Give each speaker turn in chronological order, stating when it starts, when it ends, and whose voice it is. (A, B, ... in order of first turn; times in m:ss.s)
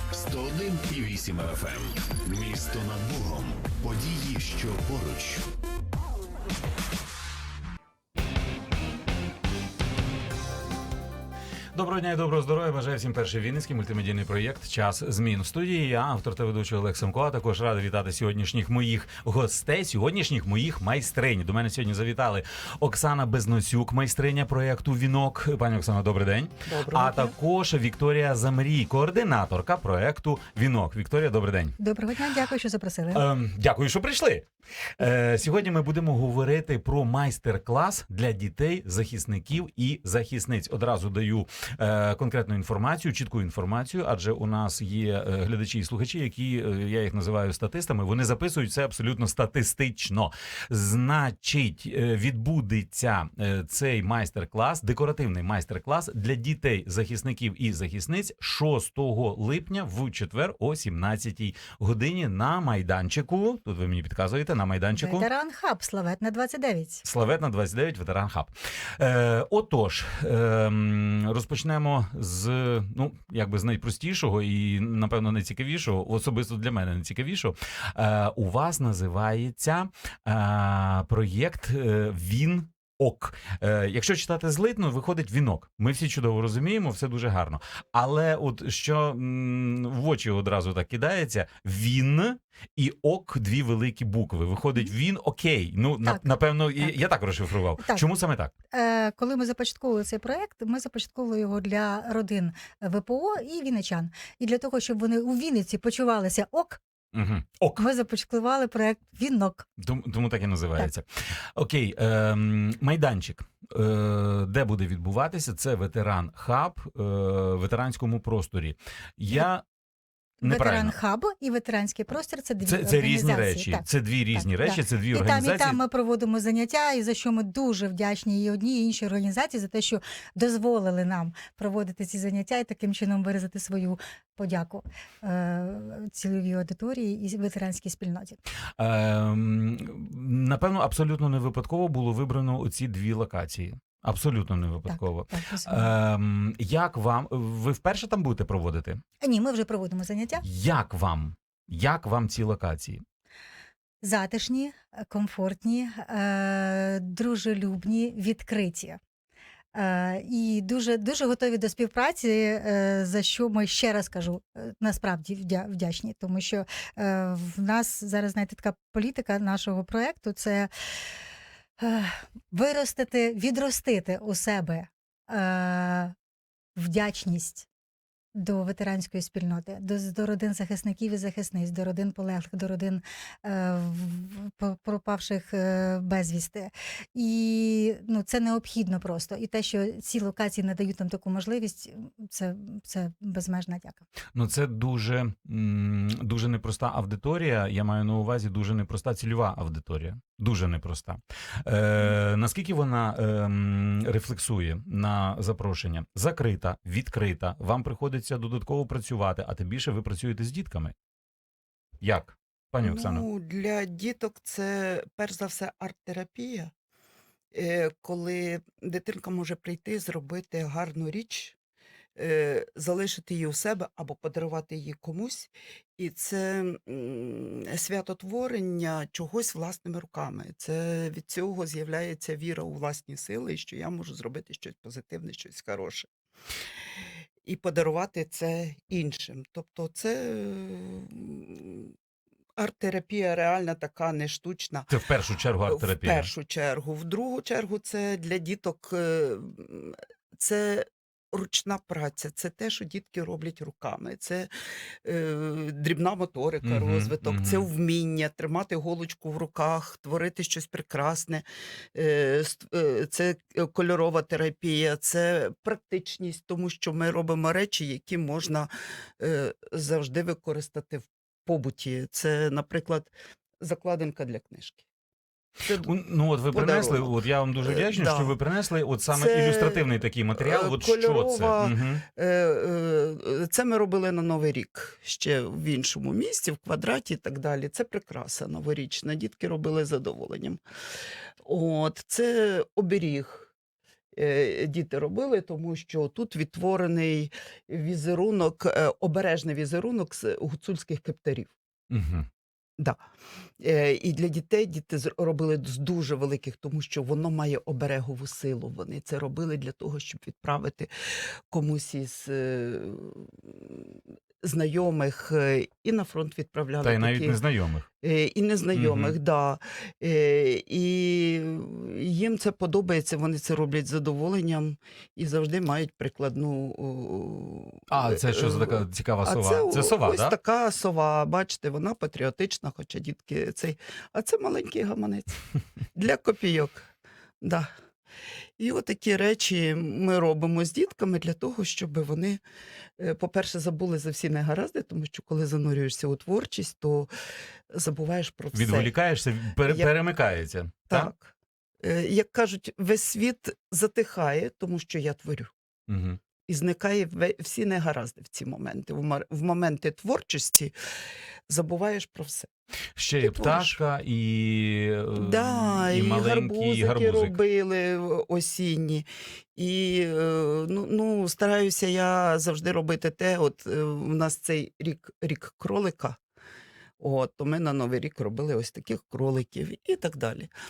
0:00.1-0:05.4 A
0:11.7-0:31.8 B
0:26.7-0:27.4 C
0:31.8-0:33.3 D
0:33.1-1:05.3 B
1:05.0-1:07.0 D
1:07.0-1:38.5 B
1:36.0-1:37.1 D
1:37.8-1:38.0 D
1:38.7-1:46.8 D
1:47.1-1:47.8 B
1:47.8-1:49.7 D
1:49.8-1:59.6 B
2:00.4-2:18.4 D
2:00.4-2:01.0 B
2:02.6-2:05.8 B
2:18.8-2:29.0 B
2:24.9-2:26.0 D
2:29.2-2:30.4 D
2:30.4-2:33.0 B
2:34.0-2:39.0 D
2:39.7-2:50.7 D
2:51.8-2:56.1 D
2:56.8-2:57.7 D
2:58.4-3:14.0 D
3:14.4-3:30.9 B
3:32.0-3:33.3 B
3:32.8-3:36.7 C
3:37.5-3:41.6 C
3:42.2-3:56.1 C
3:57.4-4:01.9 C
4:02.6-4:04.9 C
4:04.9-4:06.3 B
4:05.7-4:14.5 C
4:15.0-4:34.8 C
4:16.6-4:17.7 B
4:35.6-4:35.9 C
4:35.8-4:42.0 B
4:36.5-4:38.4 C
4:39.1-4:50.6 C
4:51.4-4:53.5 C
4:54.2-5:01.5 C
5:01.9-5:02.3 B
5:03.6-5:10.9 C
5:11.5-5:17.4 C
5:16.8-5:17.9 B
5:18.0-5:35.4 C
5:18.7-5:19.1 B
5:27.9-5:30.4 B
5:36.0-5:36.9 C
5:37.4-5:37.7 C
5:38.6-5:42.4 C
5:43.0-5:47.1 C
5:47.7-5:49.0 C
5:48.5-5:51.1 B
5:50.9-5:55.5 C
5:55.9-5:56.2 B
5:56.5-6:00.8 C
6:01.5-6:02.5 C
6:03.0-6:07.4 B
6:03.2-6:03.8 C
6:05.2-6:16.2 C
6:17.0-6:20.5 C